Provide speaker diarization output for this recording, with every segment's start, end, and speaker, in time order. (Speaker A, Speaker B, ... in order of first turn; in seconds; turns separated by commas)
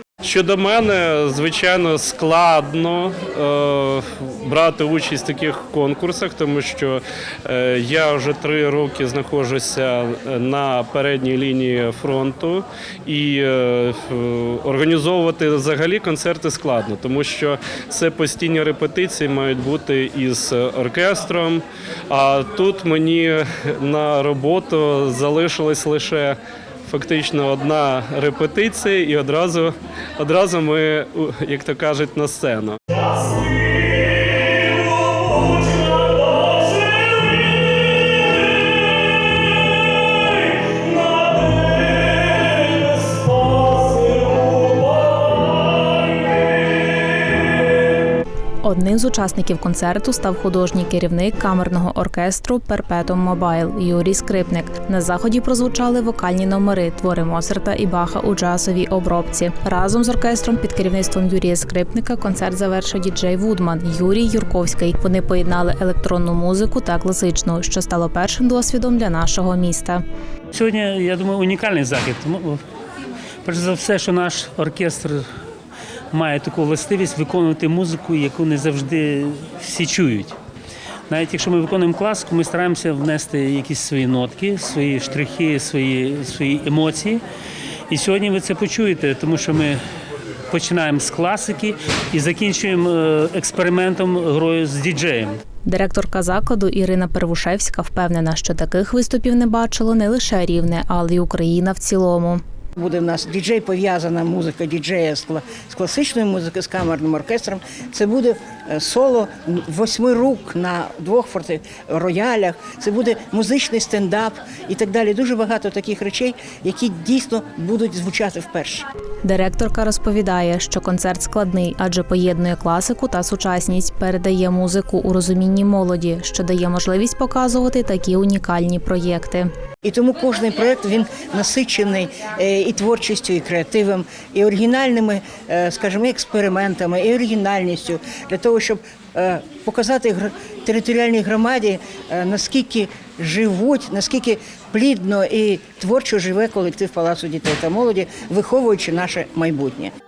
Speaker A: 0.2-32.8, Speaker B: 33.2-37.6, Speaker B: 40.5-46.4, Speaker C: 48.6-70.0, Speaker B: 70.5-72.6, Speaker B: 73.4-75.3, Speaker B: 76.1-80.4, Speaker B: 81.1-87.2, Speaker B: 87.9-89.8, Speaker B: 90.5-95.4, Speaker C: 95.7-102.4, Speaker D: 102.8-118.9, Speaker C: 119.2-129.5, Speaker D: 129.8-149.9